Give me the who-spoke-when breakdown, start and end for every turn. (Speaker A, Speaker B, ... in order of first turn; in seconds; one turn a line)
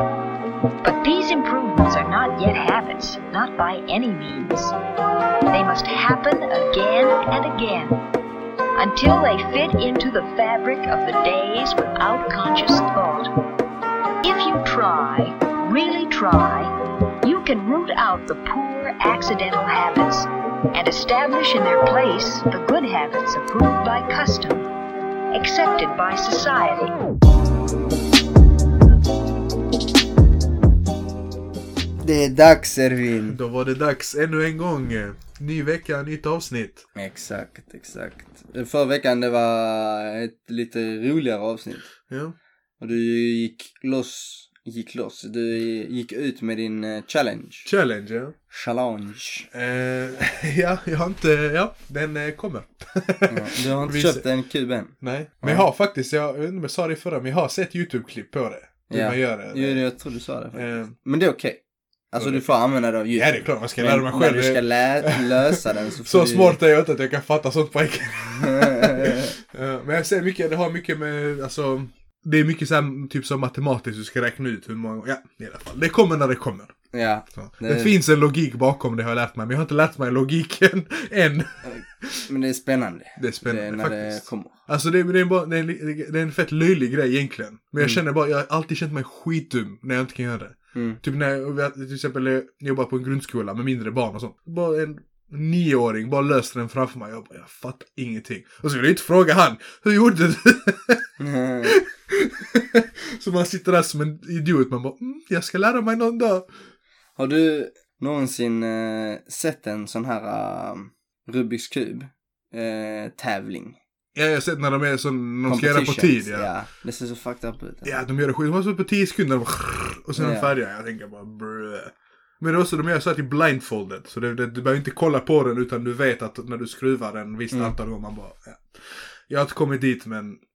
Speaker A: 0.8-4.7
Speaker A: 5.5-8.0
Speaker A: 8.8-13.3
Speaker A: 14.2-16.7
Speaker A: 17.2-24.7
Speaker A: 25.3-26.9
Speaker B: 32.0-33.4
Speaker C: 33.3-36.9
Speaker B: 37.0-41.9
Speaker C: 42.1-42.4
Speaker B: 42.8-47.7
Speaker C: 47.6-48.4
Speaker B: 48.5-49.5
Speaker C: 49.5-54.2
Speaker B: 53.3-55.7
Speaker C: 55.0-59.8
Speaker B: 58.9-61.6
Speaker C: 60.5-60.9
Speaker B: 62.1-66.6
Speaker C: 62.2-62.5
Speaker C: 63.1-76.7
Speaker B: 68.3-69.3
Speaker B: 76.9-77.9
Speaker C: 77.4-82.2
Speaker B: 81.7-84.5
Speaker C: 83.2-101.0
Speaker B: 101.2-101.8
Speaker C: 101.7-106.5
Speaker B: 107.2-113.8
Speaker C: 114.2-116.5
Speaker B: 115.5-117.9
Speaker C: 117.8-130.4
Speaker B: 120.2-120.5